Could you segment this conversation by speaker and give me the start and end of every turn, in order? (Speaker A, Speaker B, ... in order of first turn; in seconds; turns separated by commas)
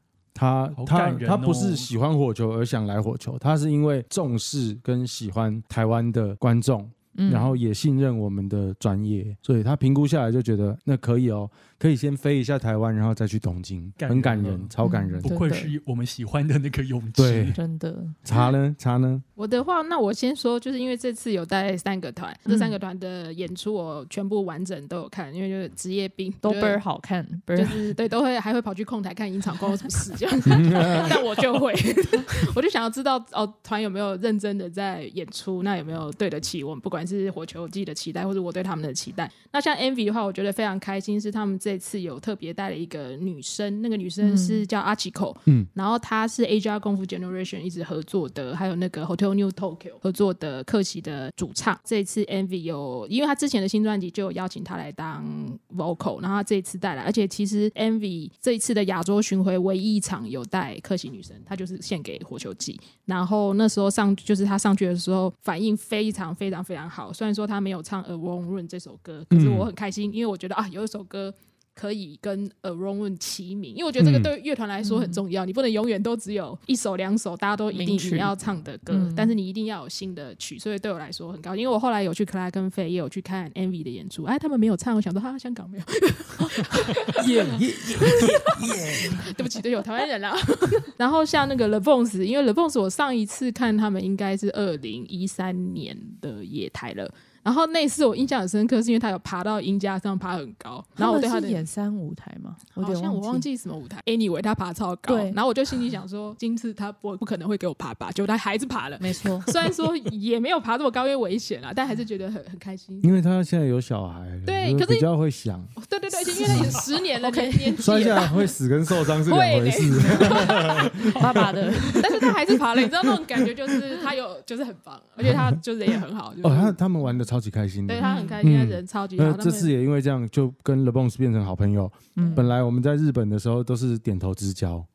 Speaker A: 0.3-15.3, Speaker B: 0.8-1.9, Speaker C: 7.1-7.6, Speaker B: 14.0-14.7, Speaker C: 14.8-15.7, Speaker B: 15.2-17.6, Speaker A: 17.2-17.6, Speaker C: 17.5-18.2, Speaker A: 18.2-19.2, Speaker D: 19.4-26.8, Speaker C: 22.5-22.8, Speaker C: 26.4-27.8, Speaker D: 27.5-101.6, Speaker A: 30.4-31.1, Speaker C: 44.2-44.6, Speaker A: 69.3-69.7, Speaker A: 74.0-74.3, Speaker C: 74.8-75.2, Speaker C: 77.7-78.3, Speaker C: 78.9-79.3, Speaker C: 86.4-86.7, Speaker A: 87.2-89.2, Speaker C: 101.0-103.5, Speaker D: 102.8-113.1, Speaker C: 105.1-105.4, Speaker C: 109.0-109.5, Speaker A: 113.0-115.7, Speaker D: 114.5-115.0, Speaker D: 115.8-118.3, Speaker C: 116.3-118.2, Speaker A: 116.4-116.7, Speaker A: 117.8-122.0, Speaker D: 119.0-121.1, Speaker C: 120.0-122.3, Speaker D: 122.0-126.8, Speaker A: 126.4-134.9, Speaker D: 127.9-129.7, Speaker C: 128.0-128.4, Speaker C: 132.2-132.5, Speaker D: 132.2-132.5